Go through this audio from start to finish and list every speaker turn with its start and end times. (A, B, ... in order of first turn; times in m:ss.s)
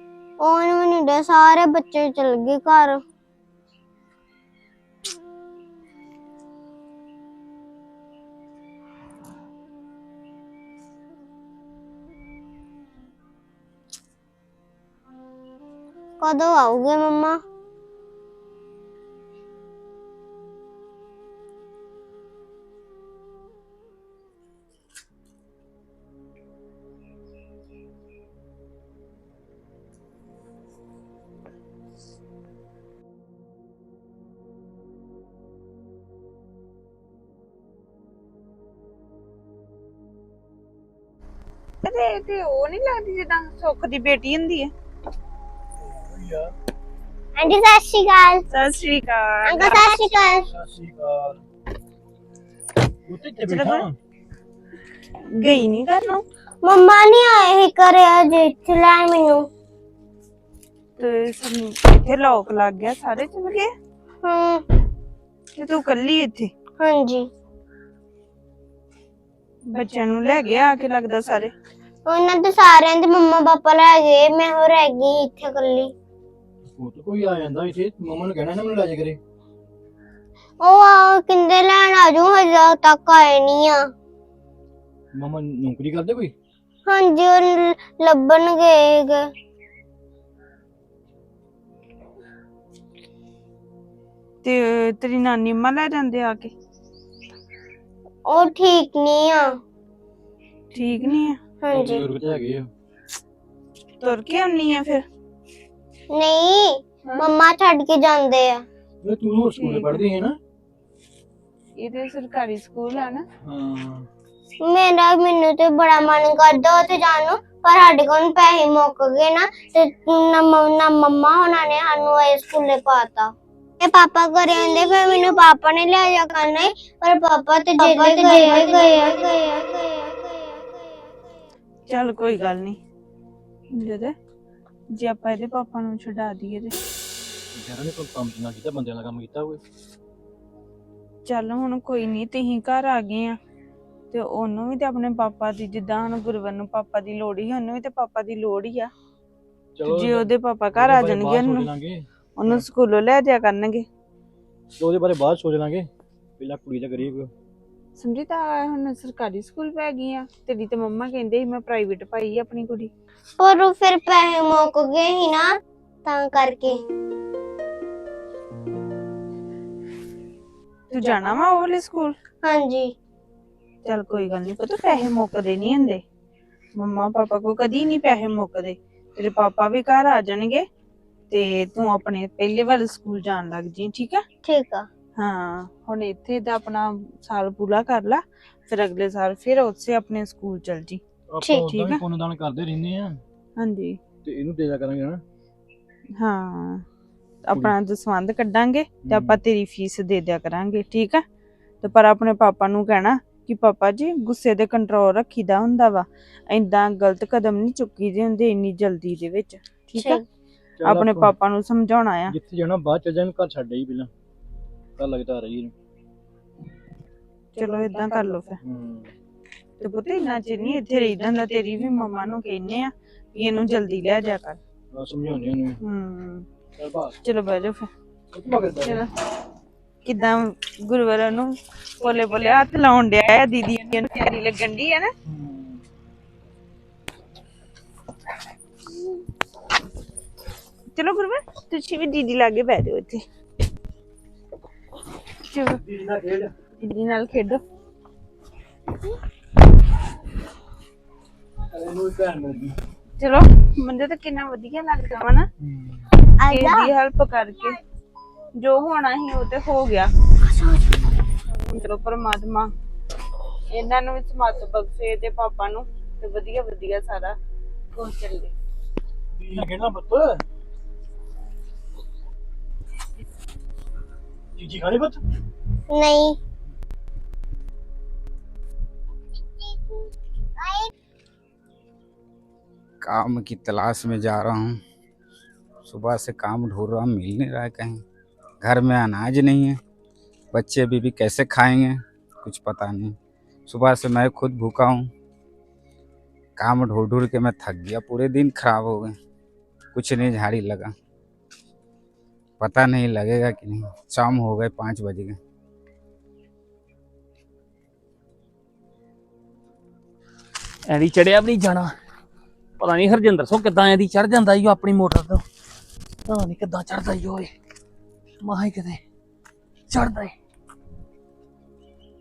0:00.4-0:03.0 A
0:16.2-0:17.4 A
0:41.8-0:44.7 B
0:45.9-0:46.5 C
0:47.4-0:48.4 A
0:48.5-0:49.9 B
0:49.5-0:50.5 A
0:50.5-0:51.4 C
0:53.1-0:54.0 C
0:53.4-0:53.9 B
0:55.4-0:56.2 B
0:56.6-0:59.5 A
1:01.0-1:03.7 B
1:04.2-1:04.6 A
1:05.6-1:06.5 B
1:06.8-1:07.3 A
1:09.7-1:11.5 B
1:12.1-1:15.9 A
1:16.8-1:19.2 C
1:20.6-1:23.8 A
1:25.2-1:26.3 C
1:26.9-1:29.3 A
1:34.4-1:36.5 B
1:38.3-1:39.5 A
1:40.7-1:41.4 B
1:41.6-1:42.0 A
1:41.7-1:42.7 C
1:44.0-1:45.0 B
1:46.2-1:48.6 A
1:49.0-1:50.4 C
1:49.5-1:50.0 B
1:51.8-1:53.2 B
1:53.4-1:54.1 C
1:54.7-2:10.8 A
2:07.8-2:09.2 B
2:11.9-2:12.8 B
2:13.7-2:14.2 B
2:14.9-2:16.8 B
2:17.5-2:19.6 C
2:21.3-2:23.4 B
2:24.1-2:28.9 B
2:29.8-2:32.7 C
2:29.8-2:31.7 B
2:32.4-2:33.9 B
2:34.8-2:35.9 C
2:36.4-2:37.3 C
2:38.0-2:42.9 B
2:43.4-2:45.5 A
2:46.0-2:46.8 A
2:50.9-2:52.2 B
2:52.4-2:52.9 A
2:53.8-2:56.0 B
2:56.8-3:00.6 B
3:01.3-3:04.2 B
3:04.4-3:04.9 A
3:05.2-3:11.0 B
3:11.3-3:13.2 C
3:11.4-3:11.7 A
3:11.7-3:12.0 B
3:13.6-3:14.0 B
3:14.2-3:15.2 C
3:16.2-3:16.8 B
3:17.5-3:21.2 B
3:19.0-3:19.4 C
3:21.8-3:30.2 B
3:29.9-3:30.2 A
3:30.8-3:31.3 C
3:30.8-3:32.4 B
3:32.3-3:34.1 C
3:35.0-3:35.7 C
3:37.6-3:38.6 B
3:38.6-3:39.1 C
3:39.8-3:44.6 B
3:44.9-3:45.8 C
3:45.8-3:46.5 B
3:46.8-3:47.2 C
3:47.2-3:47.9 B
3:48.3-3:49.0 C
3:48.8-3:49.1 B
3:50.0-3:55.1 B
3:55.3-3:55.8 C
4:00.9-4:03.2 B
4:05.5-4:05.8 B
4:05.9-4:06.5 C
4:06.8-4:07.6 B
4:11.7-4:12.8 C
4:13.2-4:15.5 B
4:15.6-4:16.0 C
4:16.4-4:16.9 A
4:16.5-4:17.8 B
4:18.6-4:20.1 B
4:21.6-4:22.7 B
4:23.7-4:27.4 B
4:28.0-4:28.5 B
4:29.4-4:30.4 C
4:34.6-4:35.2 C
4:35.9-4:36.4 A
4:43.0-4:44.8 D
4:45.8-4:48.0 D
4:48.6-4:49.8 D
4:50.5-4:53.2 D
4:53.7-4:55.1 D
4:56.6-4:59.2 D
4:59.9-5:00.9 D
5:02.6-5:05.4 D
5:10.9-5:11.9 E
5:12.8-5:15.4 E
5:16.3-5:17.5 E
5:18.4-5:19.0 E
5:19.9-5:20.3 E